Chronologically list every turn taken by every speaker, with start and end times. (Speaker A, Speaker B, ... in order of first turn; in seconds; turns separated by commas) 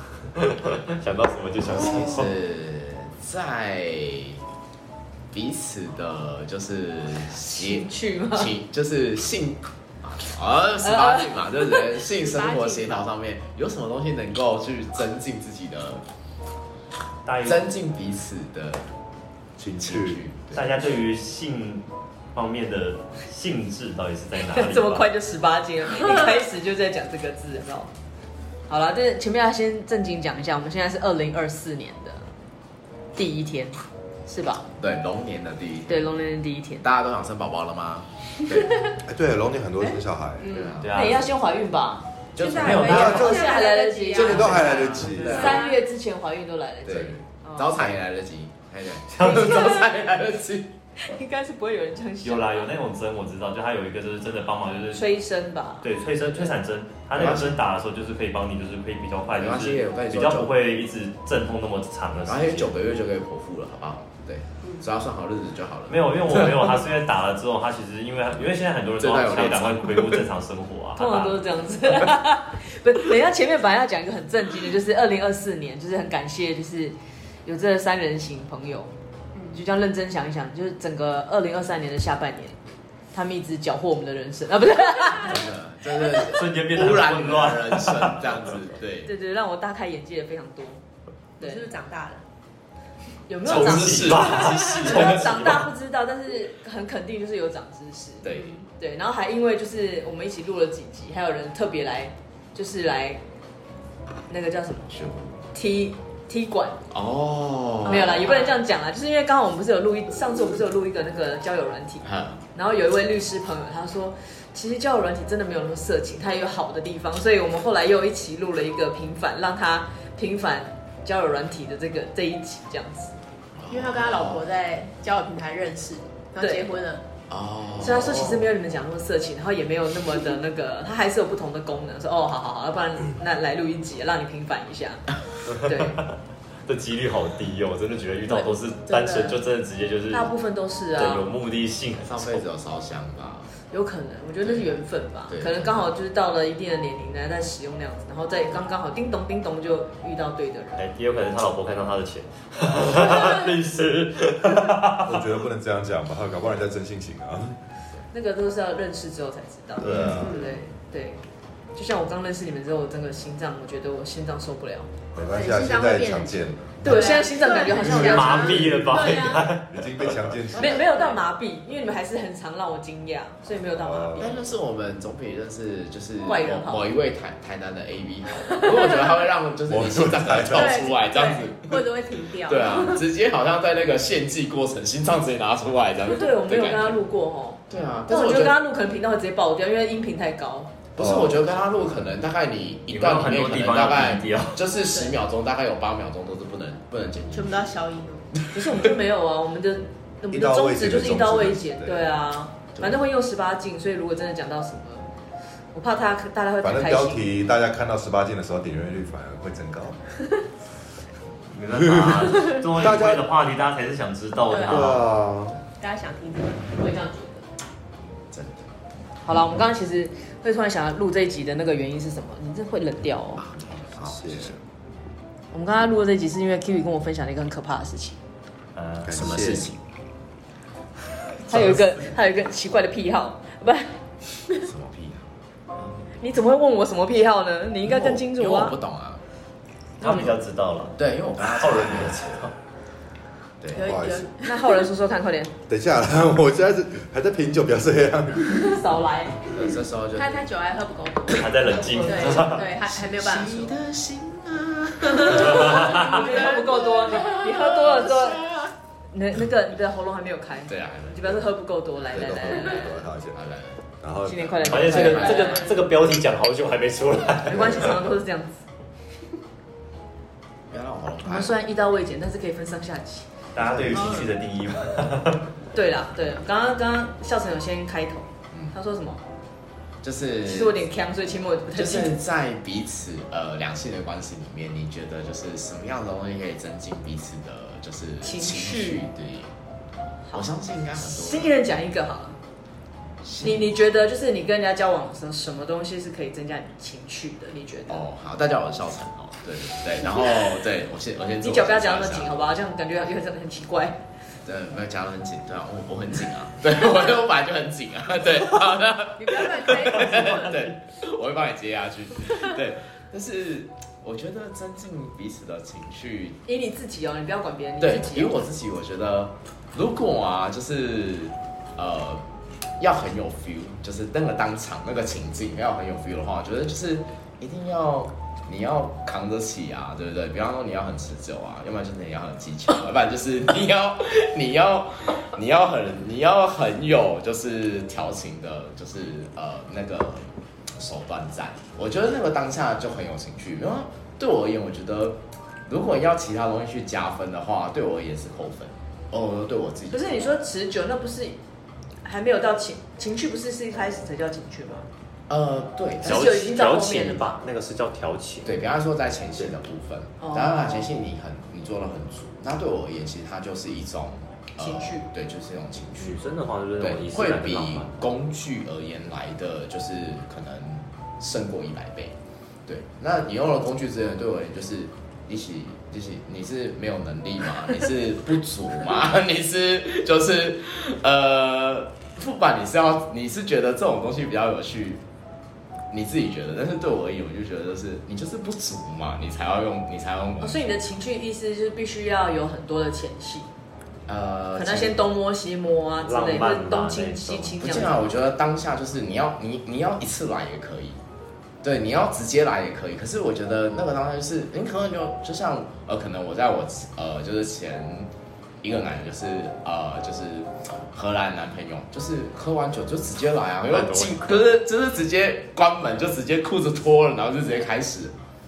Speaker A: 0.3-2.3, Speaker B: 1.7-4.4, Speaker B: 5.3-16.0, Speaker C: 7.5-8.5, Speaker C: 10.8-11.9, Speaker D: 12.1-13.1, Speaker A: 17.2-17.7, Speaker B: 17.4-18.8, Speaker E: 19.6-20.2, Speaker B: 19.8-20.9, Speaker A: 20.5-25.1, Speaker C: 24.3-27.9, Speaker C: 28.7-32.3, Speaker C: 33.1-34.6, Speaker B: 34.8-36.1, Speaker C: 35.9-36.8, Speaker B: 36.8-38.8, Speaker E: 39.0-40.6, Speaker D: 40.4-40.7, Speaker B: 40.5-41.2, Speaker A: 40.8-41.2, Speaker C: 40.9-42.1, Speaker B: 42.4-43.2, Speaker D: 42.4-45.8, Speaker A: 42.5-43.2, Speaker E: 42.7-43.4, Speaker C: 42.8-47.9, Speaker E: 44.1-45.5, Speaker A: 44.5-45.2, Speaker B: 45.1-45.6, Speaker B: 46.8-50.7, Speaker A: 49.1-49.7, Speaker C: 49.2-49.9, Speaker C: 51.0-52.7, Speaker A: 52.2-55.1, Speaker C: 54.9-55.9, Speaker A: 55.8-62.7, Speaker B: 57.1-57.6, Speaker B: 59.4-60.5, Speaker B: 62.2-66.7, Speaker A: 65.9-71.5, Speaker B: 69.0-70.2, Speaker C: 71.0-78.9, Speaker C: 79.5-82.6, Speaker C: 83.1-85.5, Speaker B: 85.2-89.1, Speaker A: 86.1-88.5, Speaker C: 89.0-90.8, Speaker C: 91.4-91.7, Speaker D: 91.4-92.2, Speaker C: 93.3-103.2, Speaker B: 93.4-95.3, Speaker A: 93.4-95.7, Speaker D: 94.5-94.8, Speaker B: 98.2-98.6, Speaker D: 98.3-98.6, Speaker C: 104.3-105.0, Speaker B: 104.9-105.4, Speaker C: 105.5-106.8, Speaker B: 106.9-108.2, Speaker D: 107.8-108.6, Speaker C: 107.8-123.1, Speaker B: 112.0-112.4, Speaker B: 123.5-124.5, Speaker D: 123.7-127.0, Speaker C: 126.4-126.7, Speaker B: 127.3-128.5, Speaker C: 127.8-135.0, Speaker A: 135.4-140.3, Speaker C: 135.6-136.0, Speaker D: 138.3-139.4, Speaker C: 140.1-141.3, Speaker A: 140.9-142.4, Speaker B: 142.0-143.5, Speaker C: 143.7-150.9, Speaker B: 145.3-145.8, Speaker A: 150.8-155.3, Speaker E: 155.0-157.6, Speaker C: 158.1-161.2, Speaker E: 159.8-160.4, Speaker A: 159.8-160.1, Speaker B: 160.0-160.6, Speaker D: 160.2-160.5, Speaker C: 161.7-164.9, Speaker E: 165.1-167.2, Speaker D: 165.3-169.5, Speaker C: 166.8-168.6, Speaker A: 167.8-170.3, Speaker E: 167.8-170.8, Speaker C: 170.5-174.4, Speaker D: 170.7-171.2, Speaker E: 173.7-174.3, Speaker B: 174.2-181.8, Speaker C: 176.2-176.9, Speaker D: 178.7-179.0, Speaker E: 179.7-180.8, Speaker D: 180.5-183.0, Speaker B: 182.4-187.0, Speaker C: 186.1-190.7, Speaker B: 187.7-188.6, Speaker B: 190.9-197.7, Speaker E: 191.0-191.4, Speaker A: 192.9-194.7, Speaker D: 197.3-198.3, Speaker B: 198.4-198.8, Speaker C: 198.5-205.1, Speaker E: 200.3-202.2, Speaker B: 202.7-203.0, Speaker C: 205.7-207.3, Speaker E: 206.6-210.0, Speaker A: 211.5-215.1, Speaker E: 211.8-213.3, Speaker D: 214.4-214.9, Speaker E: 214.6-215.5, Speaker D: 215.8-217.0, Speaker C: 216.8-217.4, Speaker B: 218.3-218.6, Speaker C: 219.2-223.4, Speaker B: 223.4-224.6, Speaker E: 224.0-224.5, Speaker C: 225.5-228.2, Speaker A: 228.7-229.4, Speaker E: 229.1-229.7, Speaker B: 229.1-229.8, Speaker C: 231.5-234.0, Speaker B: 234.6-236.1, Speaker C: 236.2-238.8, Speaker B: 237.8-239.2, Speaker C: 240.0-240.4, Speaker A: 240.0-242.5, Speaker B: 241.0-242.5, Speaker B: 243.6-244.0, Speaker E: 243.7-244.3, Speaker D: 243.7-244.8, Speaker C: 244.4-245.5, Speaker E: 245.7-248.8, Speaker C: 248.5-249.5, Speaker B: 249.5-250.5, Speaker D: 250.1-253.8, Speaker A: 251.3-252.7, Speaker C: 251.7-252.6, Speaker B: 252.7-258.7, Speaker A: 255.2-256.2, Speaker C: 255.5-258.4, Speaker D: 256.0-257.3, Speaker C: 259.1-263.0, Speaker B: 260.7-261.4, Speaker E: 262.1-263.4, Speaker B: 263.3-263.8, Speaker E: 264.0-265.0, Speaker C: 264.2-265.7, Speaker A: 264.6-268.0, Speaker B: 264.7-265.7, Speaker C: 267.4-268.6, Speaker B: 270.7-271.5, Speaker C: 271.2-273.3, Speaker A: 273.5-275.4, Speaker B: 273.6-274.2, Speaker C: 275.7-279.2, Speaker B: 280.0-280.8, Speaker C: 280.4-282.1, Speaker B: 281.7-289.5, Speaker C: 288.2-289.1, Speaker C: 290.3-292.4, Speaker B: 290.3-291.5, Speaker B: 293.2-293.7, Speaker C: 293.4-298.1, Speaker B: 297.9-302.5, Speaker C: 301.4-304.0, Speaker B: 304.4-316.4, Speaker D: 309.2-310.5, Speaker C: 309.3-310.3, Speaker C: 316.4-318.4, Speaker B: 317.8-322.2, Speaker B: 322.8-350.2, Speaker C: 349.9-351.4, Speaker C: 352.0-354.9, Speaker B: 355.3-356.6, Speaker C: 356.0-357.2, Speaker A: 356.1-358.6, Speaker B: 358.4-366.2, Speaker C: 360.2-360.9, Speaker C: 364.6-365.1, Speaker A: 366.0-367.9, Speaker B: 366.8-372.1, Speaker B: 372.7-385.0, Speaker B: 385.9-390.7, Speaker C: 390.4-393.5, Speaker B: 394.1-395.0, Speaker C: 394.5-398.0, Speaker A: 396.0-397.6, Speaker B: 397.6-401.0, Speaker B: 401.6-408.1, Speaker B: 408.6-418.1, Speaker A: 413.7-414.5